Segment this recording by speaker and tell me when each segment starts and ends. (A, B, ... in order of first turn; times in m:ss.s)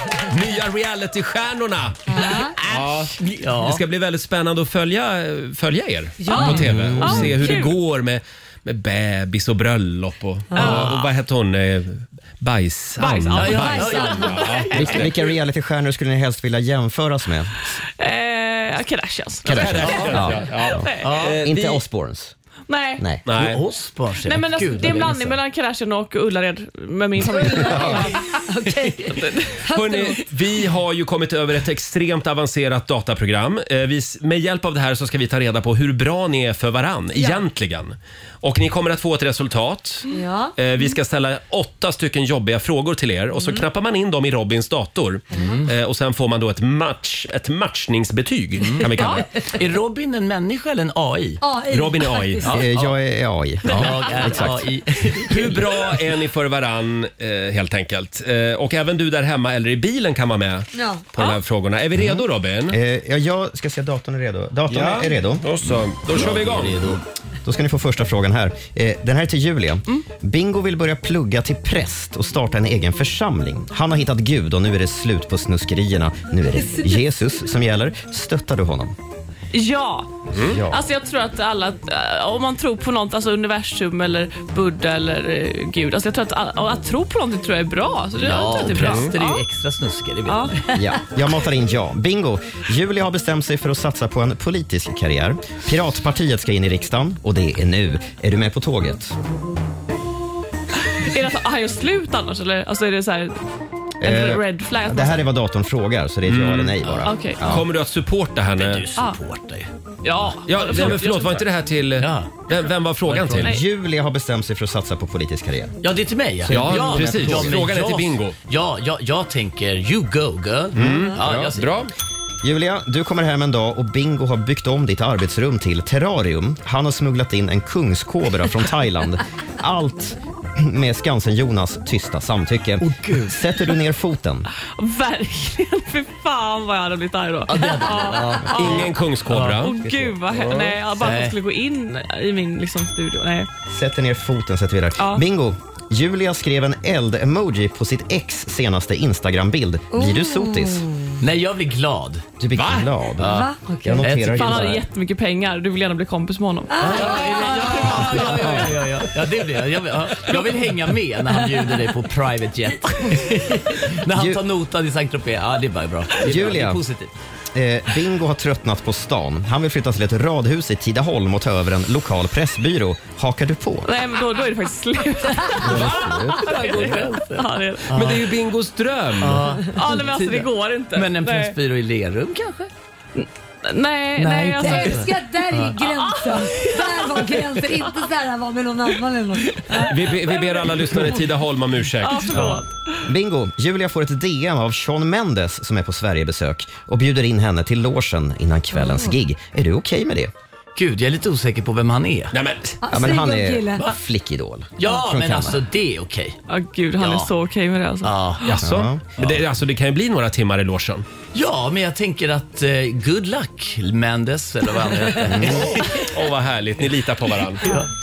0:00.2-0:15.1 A
0:02.1-0:02.6 B
0:03.2-0:03.8 C
0:06.2-0:06.7 B
0:06.5-0:07.3 D
0:07.0-0:07.8 E
0:10.5-0:10.8 B
0:10.6-0:11.1 E
0:13.0-0:15.0 E
0:13.3-0:14.9 C
0:13.4-0:14.5 B
0:14.7-0:17.5 D
0:18.0-0:21.2 E
0:19.5-0:22.3 D
0:19.5-0:21.8 A
0:19.7-0:20.3 C
0:21.0-0:21.4 C
0:22.7-0:23.1 E
0:23.0-0:23.2 D
0:23.2-0:23.6 A
0:23.3-0:25.4 C
0:24.2-0:28.4 E
0:27.3-0:30.3 B
0:29.1-0:29.6 E
0:29.7-0:49.5 A
0:37.2-0:37.4 B
0:40.1-0:40.6 B
0:45.3-0:45.6 B
0:45.3-0:45.7 C
0:48.6-0:51.4 C
0:51.4-0:52.6 B
0:51.7-0:52.6 A
0:52.4-0:53.0 C
0:52.5-0:54.7 D
0:53.7-0:56.1 C
0:53.7-0:54.3 E
0:55.3-1:02.8 A
1:00.7-1:01.1 B
1:02.0-1:05.7 D
1:04.7-1:06.8 A
1:06.1-1:07.0 C
1:07.4-1:19.0 D
1:16.6-1:17.0 B
1:19.5-1:20.1 E
1:20.3-1:20.6 A
1:20.3-1:20.9 D
1:20.7-1:29.4 E
1:28.2-1:30.6 C
1:28.7-1:29.1 A
1:30.3-1:30.6 E
1:30.7-1:39.2 D
1:41.0-1:43.4 E
1:44.0-1:47.7 D
1:44.0-1:45.3 E
1:46.3-1:46.8 A
1:47.0-1:47.3 C
1:47.0-1:47.4 E
1:47.4-1:48.9 A
1:48.6-1:49.7 C
1:50.0-1:51.4 E
1:50.4-1:53.6 A
1:50.5-1:51.4 C
1:52.0-1:52.4 C
1:53.0-1:53.5 C
1:53.4-1:55.8 D
1:55.8-2:01.8 C
1:56.4-1:57.6 D
1:56.5-1:58.4 A
2:00.8-2:01.9 A
2:01.0-2:01.6 D
2:02.4-2:14.5 D
2:12.8-2:13.5 C
2:14.8-2:18.9 E
2:17.5-2:21.4 C
2:18.5-2:19.8 A
2:19.6-2:23.5 E
2:23.7-2:30.9 D
2:25.0-2:25.2 E
2:29.9-2:31.1 B
2:31.2-2:32.3 C
2:32.4-2:34.8 D
2:32.6-2:32.9 A
2:33.2-2:34.8 C
2:33.2-2:34.1 B
2:34.2-2:38.6 E
2:36.7-2:38.0 B
2:36.8-2:47.1 C
2:44.1-2:44.4 D
2:46.2-2:46.8 D
2:47.5-2:54.0 D
2:53.8-2:57.9 E
2:55.6-2:56.5 D
2:55.8-2:58.4 C
2:57.9-2:59.5 A
2:59.2-3:02.7 C
2:59.7-3:01.6 E
3:03.2-3:05.1 E
3:04.2-3:05.8 C
3:04.2-3:10.0 B
3:05.8-3:07.0 E
3:09.9-3:12.6 A
3:10.3-3:11.1 E
3:12.0-3:12.7 E
3:13.0-3:20.3 D
3:18.8-3:19.1 B
3:20.8-3:22.3 C
3:22.3-3:22.8 A
3:22.8-3:23.8 B
3:22.9-3:25.6 D
3:24.8-3:26.4 C
3:26.5-3:28.1 E
3:27.0-3:27.3 C
3:28.0-3:28.6 C
3:28.4-3:31.0 A
3:28.6-3:29.3 D
3:31.3-3:36.1 C
3:35.2-3:35.8 D
3:35.5-3:37.8 A